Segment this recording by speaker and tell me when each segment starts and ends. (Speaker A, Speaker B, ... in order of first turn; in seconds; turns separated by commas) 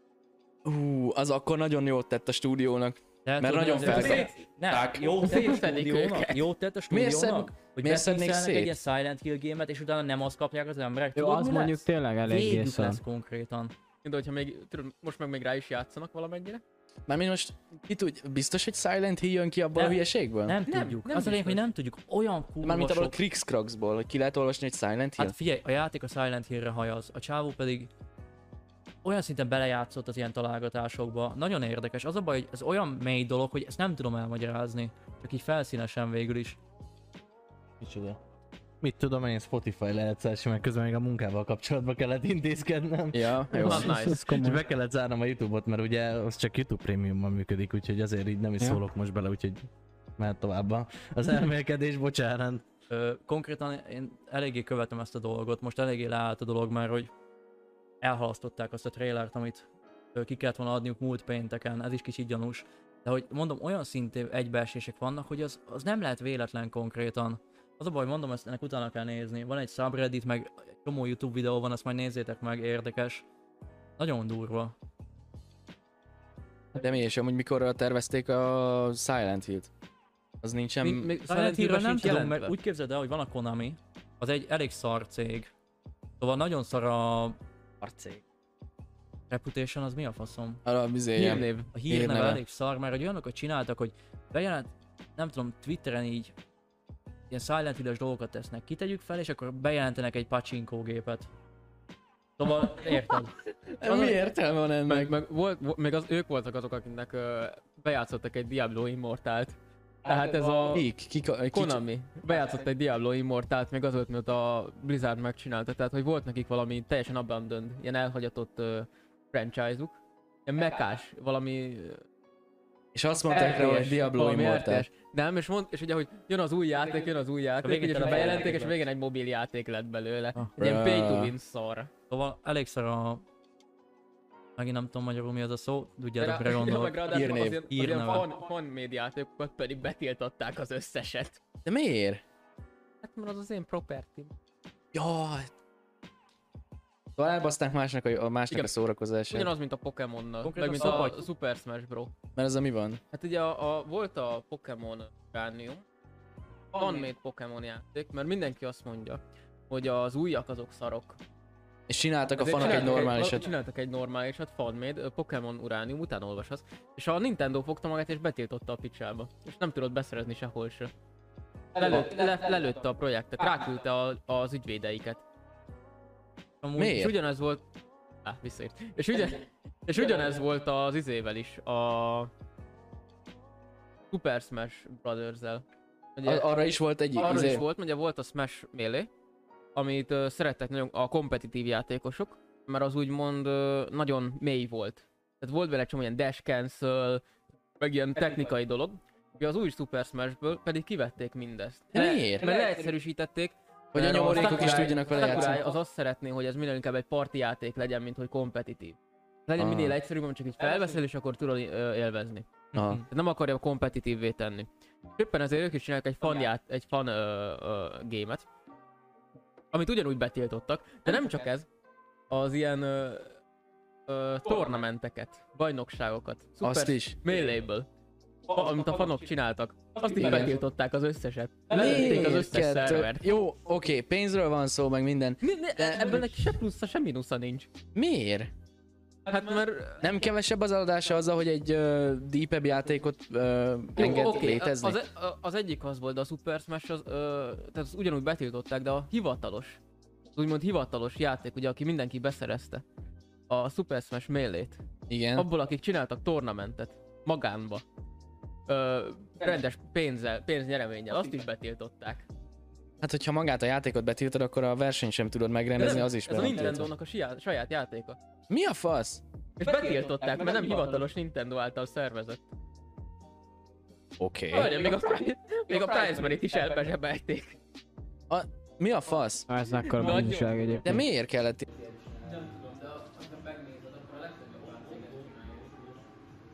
Speaker A: 0.6-5.3, Speaker B: 3.2-13.7, Speaker C: 3.9-4.3, Speaker C: 5.2-6.4, Speaker A: 6.9-8.7, Speaker D: 11.2-13.0, Speaker C: 14.0-16.6, Speaker A: 17.1-20.6, Speaker B: 19.8-23.1, Speaker C: 20.7-21.6, Speaker A: 22.6-25.4, Speaker B: 25.2-27.9, Speaker B: 29.0-36.6, Speaker E: 37.8-38.2, Speaker E: 38.8-52.6, Speaker A: 43.1-44.1, Speaker C: 43.6-44.2, Speaker D: 43.7-44.6, Speaker B: 52.9-57.1, Speaker B: 58.0-73.2, Speaker B: 74.0-74.7, Speaker A: 76.7-79.7, Speaker A: 80.4-81.1, Speaker C: 80.8-82.5, Speaker B: 81.2-85.5, Speaker B: 86.2-87.4, Speaker A: 87.8-88.2, Speaker B: 89.3-90.6, Speaker A: 90.7-92.4, Speaker C: 91.1-91.7, Speaker B: 91.7-96.3, Speaker B: 97.3-101.3, Speaker B: 102.4-103.3, Speaker A: 103.7-105.1, Speaker C: 104.9-110.8, Speaker A: 110.7-111.8, Speaker C: 111.5-119.9, Speaker C: 120.5-122.0, Speaker A: 122.9-124.8, Speaker C: 123.3-131.9, Speaker B: 127.6-128.8, Speaker A: 130.6-131.3, Speaker B: 132.1-133.2, Speaker B: 134.6-137.1, Speaker C: 136.2-141.4, Speaker A: 137.1-137.6, Speaker B: 137.7-138.3, Speaker A: 141.6-142.2, Speaker C: 143.0-144.3, Speaker A: 144.9-145.5, Speaker A: 147.2-149.5, Speaker C: 149.3-152.1, Speaker B: 150.4-151.2, Speaker A: 152.3-153.0, Speaker C: 153.1-155.8, Speaker C: 156.7-161.2, Speaker A: 161.9-163.5, Speaker C: 162.3-170.9, Speaker C: 171.7-175.2, Speaker B: 176.6-177.0, Speaker A: 176.8-177.1, Speaker C: 176.8-177.6, Speaker C: 178.2-182.3, Speaker C: 184.1-185.6, Speaker C: 186.2-186.5, Speaker A: 186.2-187.6, Speaker C: 187.2-189.1, Speaker C: 189.7-197.2, Speaker C: 197.8-212.5, Speaker A: 201.9-202.5, Speaker A: 203.9-205.6, Speaker A: 209.6-209.9, Speaker A: 212.7-213.0, Speaker B: 212.7-213.0, Speaker C: 213.1-218.4, Speaker C: 219.7-221.7, Speaker C: 222.3-223.3, Speaker C: 224.1-227.8, Speaker A: 226.6-227.2, Speaker C: 228.5-233.2, Speaker A: 230.1-230.5, Speaker A: 231.7-236.5, Speaker C: 235.4-237.7, Speaker A: 237.9-238.5, Speaker C: 239.2-240.0, Speaker A: 240.0-245.0, Speaker C: 243.9-249.8, Speaker C: 250.3-252.8, Speaker C: 253.5-254.8, Speaker A: 255.1-255.4, Speaker C: 255.3-257.8, Speaker C: 258.7-262.2, Speaker A: 263.0-266.9, Speaker C: 265.8-268.2, Speaker A: 268.5-269.2, Speaker C: 269.6-272.4, Speaker A: 274.2-274.7, Speaker C: 274.5-277.6, Speaker A: 278.3-279.5, Speaker D: 279.5-281.0, Speaker C: 279.9-280.8, Speaker A: 280.8-281.7, Speaker C: 282.2-286.0